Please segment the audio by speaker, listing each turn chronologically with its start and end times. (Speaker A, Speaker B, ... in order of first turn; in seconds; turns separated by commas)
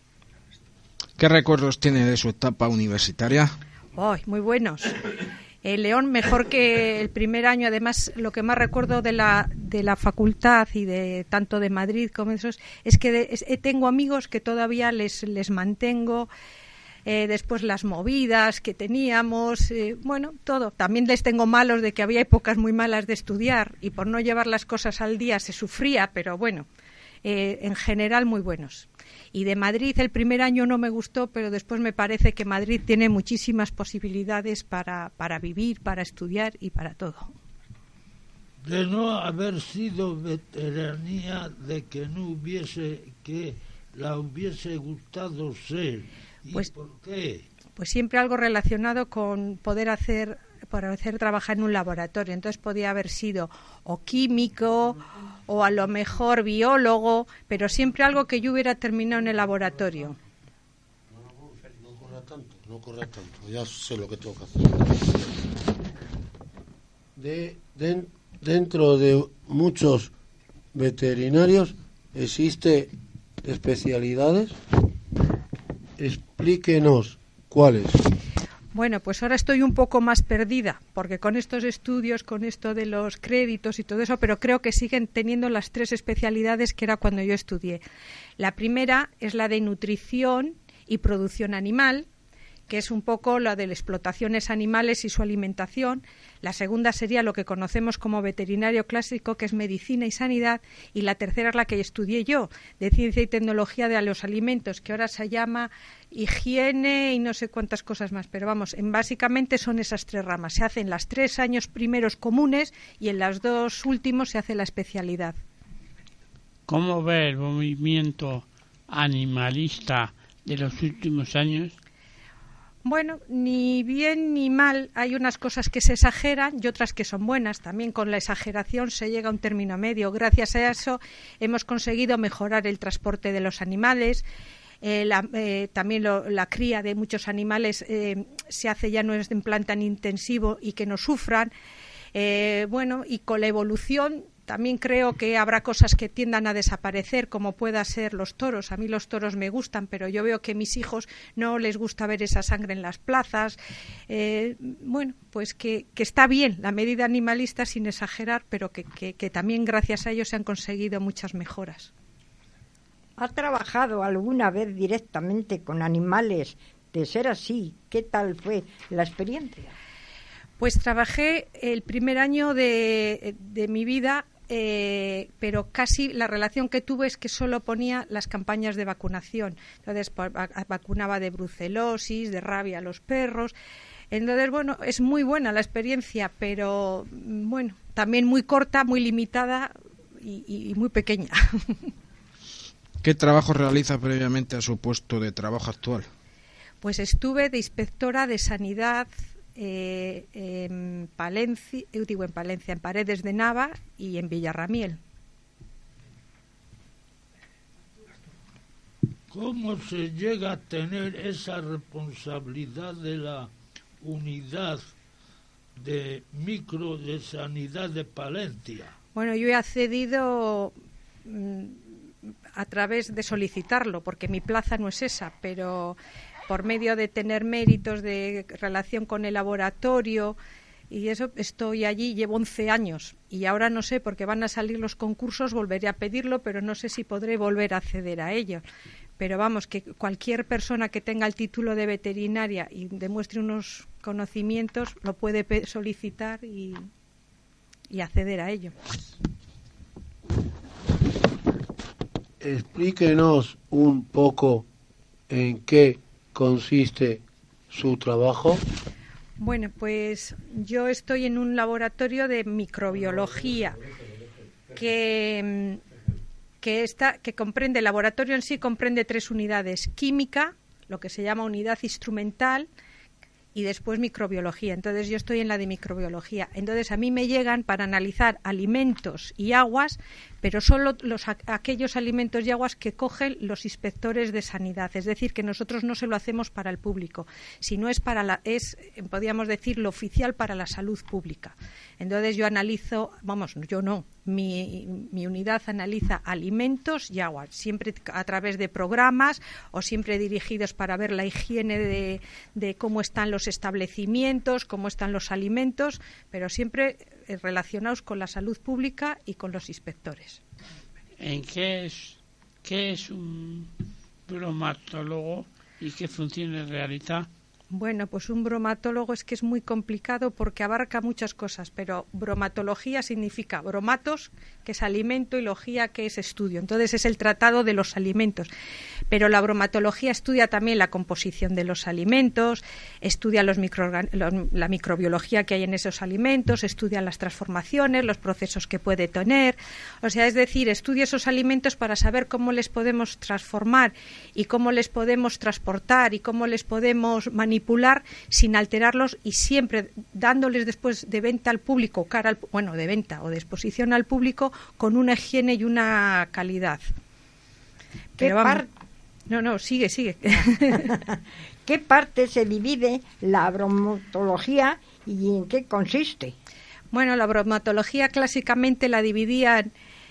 Speaker A: 1.2-3.5, Speaker B: 3.9-5.1, Speaker B: 5.6-16.3, Speaker B: 17.0-26.7, Speaker B: 27.2-37.4, Speaker C: 38.6-47.4, Speaker B: 47.8-60.1, Speaker D: 61.1-65.1, Speaker D: 67.2-70.1, Speaker D: 70.7-72.9, Speaker D: 73.4-74.6, Speaker D: 76.0-78.0, Speaker B: 78.7-87.8, Speaker B: 88.4-92.0, Speaker B: 92.7-115.4, Speaker E: 116.7-121.7, Speaker B: 122.8-134.2, Speaker B: 134.8-141.5, Speaker B: 142.1-153.6, Speaker B: 154.1-161.9, Speaker F: 163.2-169.7, Speaker B: 170.6-183.5, Speaker B: 184.1-191.7, Speaker A: 193.0-196.1, Speaker B: 196.8-205.0, Speaker C: 209.3-214.9, Speaker C: 215.8-218.9, Speaker B: 219.1-220.7, Speaker B: 221.2-221.8, Speaker B: 222.5-230.4, Speaker B: 230.9-238.6, Speaker B: 239.2-246.8, Speaker B: 247.9-248.7, Speaker D: 252.4-254.7, Speaker D: 255.3-258.6, Speaker B: 259.4-263.8, Speaker B: 264.7-265.8, Speaker B: 266.6-272.7, Speaker B: 273.6-310.4, Speaker E: 311.2-313.7, Speaker E: 314.3-317.3, Speaker B: 317.7-328.5, Speaker B: 329.1-356.8, Speaker B: 358.2-358.6, Speaker F: 358.2-358.7, Speaker B: 359.3-360.9, Speaker F: 360.7-366.3, Speaker B: 366.9-369.7